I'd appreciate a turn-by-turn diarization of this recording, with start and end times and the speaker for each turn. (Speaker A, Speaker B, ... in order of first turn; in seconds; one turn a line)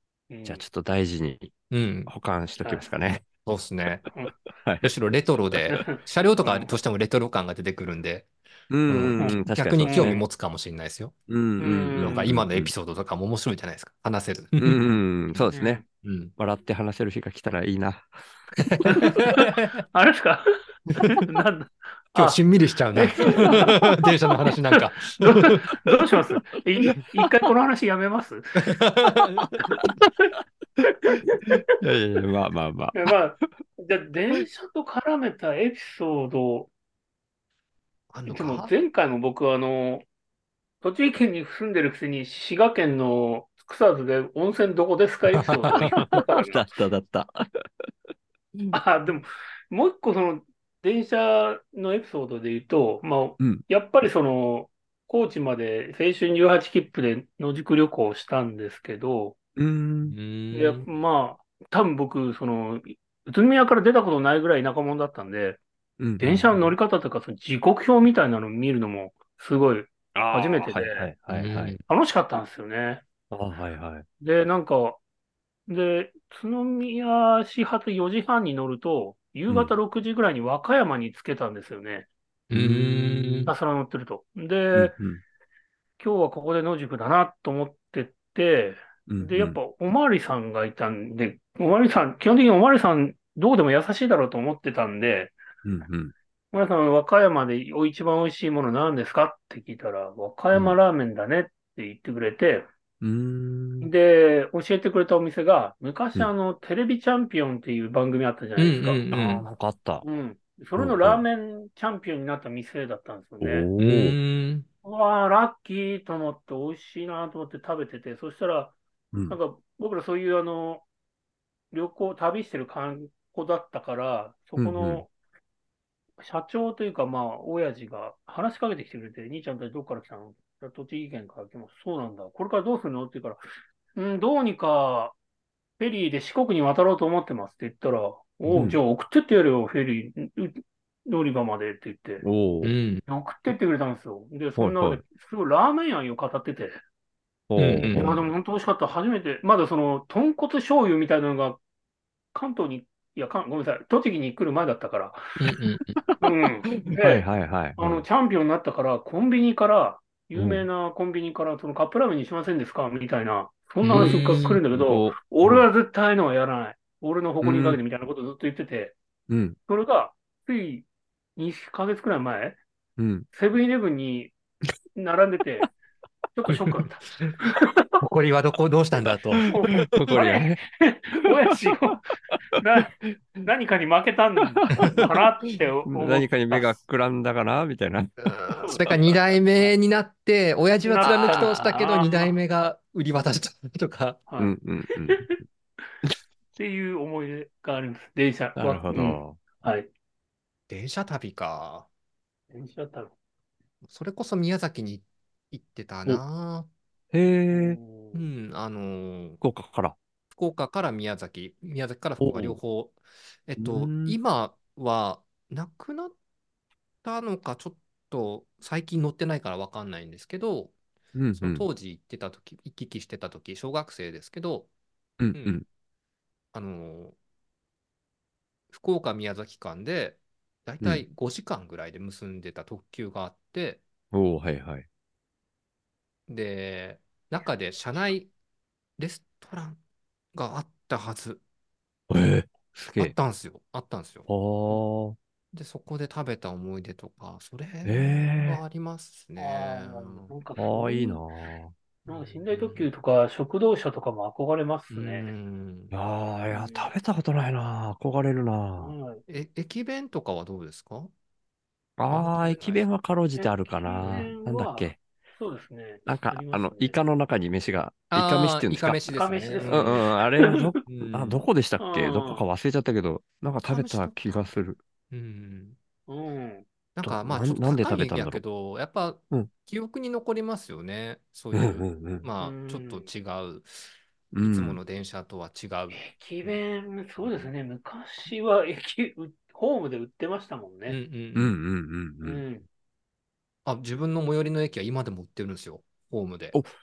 Speaker A: 0.3-0.6
Speaker B: 0.4-1.5
Speaker C: 1.7-2.1
Speaker B: 2.1-3.2
Speaker C: 3.4-4.0
Speaker B: 4.6-4.9
Speaker C: 4.8-8.3
Speaker A: 5.7-6.7
Speaker B: 8.7-10.2
Speaker C: 8.9-11.1
Speaker A: 9.2-10.2
Speaker B: 11.3-12.7
Speaker A: 11.6-12.3
Speaker C: 12.0-14.8
Speaker B: 14.6-15.8
Speaker A: 15.5-15.8
Speaker C: 16.0-16.3
Speaker B: 16.4-18.1
Speaker C: 18.6-19.8
Speaker A: 18.9-22.4
Speaker C: 22.1-25.6
Speaker A: 22.9-23.9
Speaker A: 24.8-28.7
Speaker C: 28.6-29.7
Speaker A: 31.0-31.6
Speaker B: 31.6-33.4
Speaker A: 32.9-36.7
Speaker C: 38.1-38.7
Speaker A: 38.3-40.0
Speaker A: 40.8-46.6
Speaker C: 45.4-46.1
Speaker B: 45.8-47.3
Speaker A: 48.7-59.4
Speaker B: 53.4-53.6
Speaker B: 59.5-60.2
Speaker C: 60.1-60.9
Speaker A: 60.5-65.6
Speaker B: 66.0-66.6
Speaker A: 66.2-71.1
Speaker B: 70.1-71.7
Speaker C: 71.3-71.8
Speaker A: 71.9-73.0
Speaker B: 73.3-74.0
Speaker A: 74.2-75.0
Speaker A: 75.7-82.1
Speaker C: 82.5-83.5
Speaker B: 82.5-83.5
Speaker A: 83.5-84.9
Speaker B: 84.7-85.2
Speaker A: 86.0-95.3
Speaker B: 89.1-89.6
Speaker B: 95.6-96.1
Speaker A: 96.5-102.7
Speaker B: 103.0-103.9
Speaker A: 103.8-109.1
Speaker C: 108.6-109.4
Speaker B: 109.1-110.0
Speaker A: 110.0-113.7
Speaker B: 110.8-111.2
Speaker B: 113.4-114.2
Speaker C: 113.8-114.7
Speaker A: 114.8-118.8
Speaker B: 119.1-119.4
Speaker A: 119.3-120.8
Speaker A: 121.7-125.1
Speaker B: 124.6-125.0
Speaker A: 126.2-133.4
Speaker A: 133.9-135.1
Speaker A: 135.8-142.2
Speaker B: 138.5-138.8
Speaker B: 142.2-142.7
Speaker C: 142.6-143.0
Speaker A: 143.1-146.8
Speaker B: 144.6-145.0
Speaker B: 147.5-148.2
Speaker C: 147.6-148.2
Speaker A: 147.9-151.6
Speaker A: 152.3-155.2
Speaker C: 155.4-156.0
Speaker B: 156.0-158.0
Speaker A: 156.2-157.2
Speaker A: 157.8-168.9
Speaker B: 160.3-160.7
Speaker C: 163.8-164.6
Speaker B: 163.9-165.6
Speaker B: 167.4-167.8
Speaker B: 169.3-169.6
Speaker A: 169.7-172.6
Speaker B: 173.0-173.3
Speaker A: 173.3-174.3
Speaker A: 174.9-175.7
Speaker A: 176.3-178.0
Speaker C: 178.0-179.5
Speaker B: 179.4-180.6
Speaker A: 179.5-186.7
Speaker B: 181.7-181.9
Speaker B: 184.5-185.1
Speaker B: 185.8-188.2
Speaker C: 188.2-194.2
Speaker A: 188.5-189.7
Speaker A: 190.8-192.3
Speaker A: 194.3-194.6
Speaker B: 194.4-195.4
Speaker A: 196.6-199.9
Speaker B: 198.6-199.4
Speaker C: 200.7-201.9
Speaker A: 202.5-203.1
Speaker C: 203.8-206.7
Speaker B: 207.1-207.8
Speaker A: 207.5-208.2
Speaker C: 208.1-209.4
Speaker B: 209.4-209.9
Speaker C: 210.3-216.1
Speaker B: 212.2-212.6
Speaker B: 213.6-214.2
Speaker C: 217.0-220.7
Speaker B: 221.1-221.7
Speaker C: 221.4-224.7
Speaker B: 225.2-225.6
Speaker C: 225.3-225.6
Speaker C: 226.5-227.2
Speaker C: 228.7-233.8
Speaker B: 234.1-234.8
Speaker C: 236.3-238.3
Speaker C: 239.0-239.8
Speaker C: 240.3-241.4
Speaker B: 242.1-243.1
Speaker C: 243.0-244.8
Speaker B: 244.3-245.2
Speaker C: 245.5-250.3
Speaker B: 247.8-248.6
Speaker A: 249.3-251.2
Speaker B: 250.6-251.7
Speaker C: 252.1-252.9
Speaker A: 252.1-255.3
Speaker C: 254.9-255.9
Speaker B: 255.9-258.9
Speaker A: 256.5-256.9
Speaker A: 258.8-259.2
Speaker C: 259.3-261.1
Speaker B: 262.0-265.0
Speaker C: 262.1-262.9
Speaker A: 263.4-267.0
Speaker B: 266.1-269.0
Speaker C: 268.1-270.1
Speaker A: 269.1-270.6
Speaker B: 269.6-274.8
Speaker C: 270.9-271.4
Speaker A: 271.8-272.4
Speaker C: 273.6-274.4
Speaker C: 275.1-275.8
Speaker A: 276.1-276.6
Speaker C: 276.9-283.9
Speaker B: 277.0-278.4
Speaker B: 281.5-282.2
Speaker A: 282.4-283.1
Speaker B: 284.3-284.8
Speaker C: 284.4-286.5
Speaker A: 285.9-291.0
Speaker C: 287.2-287.5
Speaker C: 290.9-291.6
Speaker B: 291.3-292.4
Speaker A: 292.2-292.6
Speaker C: 293.6-296.6